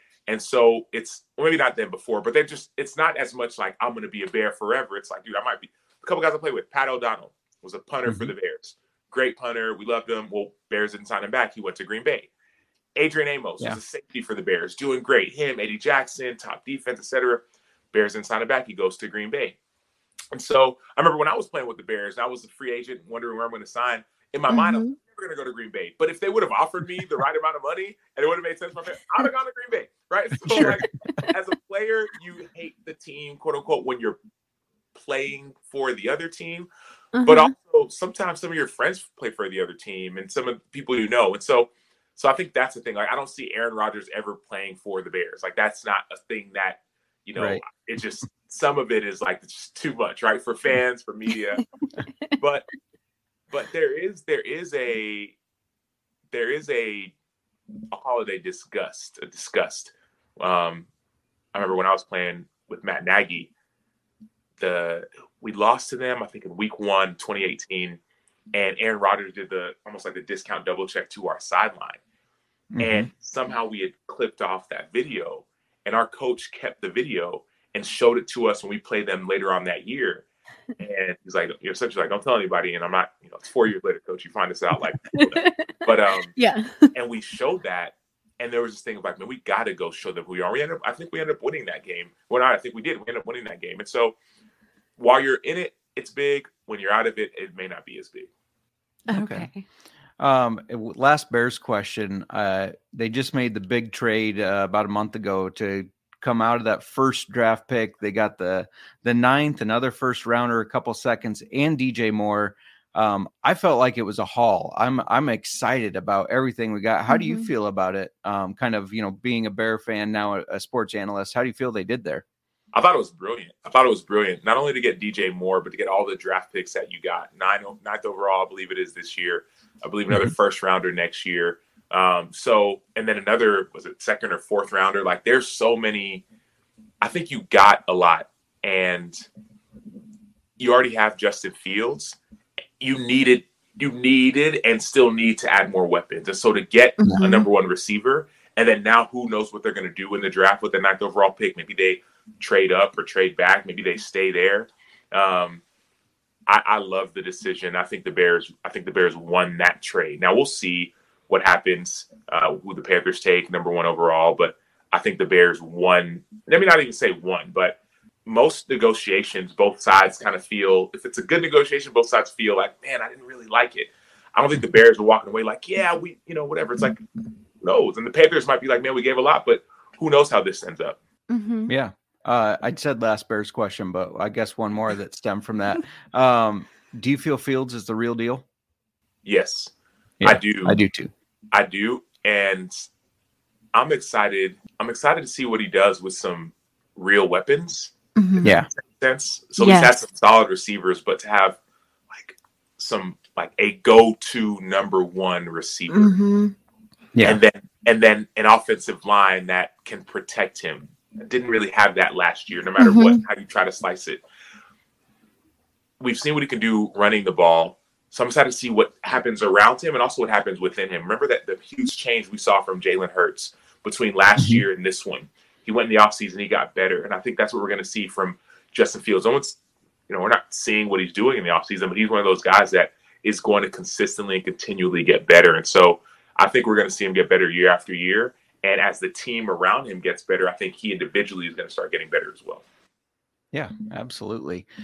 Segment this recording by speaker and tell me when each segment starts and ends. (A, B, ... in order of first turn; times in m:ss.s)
0:00.3-0:12.3 A
0:08.1-0:08.3 B
0:13.0-0:19.6 A
0:20.3-0:34.2 A
0:24.5-0:24.9 C
0:30.4-0:31.2 B
0:35.0-0:36.7 A
0:37.1-0:37.5 C
0:37.2-0:51.6 A
0:47.4-0:47.6 B
0:52.4-0:52.7 A
0:53.5-0:55.4 A
0:56.3-0:57.1 A
0:57.9-1:00.9 A
1:01.5-1:03.5 A
1:04.6-1:08.0 A
1:08.5-1:12.0 A
1:12.7-1:13.1 B
1:12.8-1:20.3 A
1:20.8-1:26.3 A
1:25.1-1:25.7 C
1:26.4-1:26.9 C
1:26.9-1:34.2 A
1:35.0-1:38.3 A
1:39.1-1:39.7 C
1:39.1-1:39.5 B
1:40.2-2:02.2 B
1:57.1-1:57.5 C
2:02.7-2:16.2 A
2:17.0-2:19.3 A
2:20.6-2:22.2 A
2:22.8-2:35.6 A
2:27.1-2:27.5 C
2:36.5-2:57.0 A
2:57.6-3:01.0 A
3:01.3-3:01.7 C
3:01.7-3:08.4 B
3:09.2-3:09.7 A
3:10.2-3:11.1 B
3:10.2-3:10.8 A
3:11.5-3:12.8 A
3:13.7-3:21.6 A
3:18.2-3:18.5 C
3:19.6-3:19.9 C
3:22.1-3:26.2 A
3:25.9-3:26.6 C
3:27.2-3:34.2 A
3:32.8-3:33.2 C
3:36.0-3:49.6 A
3:44.4-3:44.6 B
3:50.1-4:02.6 A
4:03.5-4:04.7 B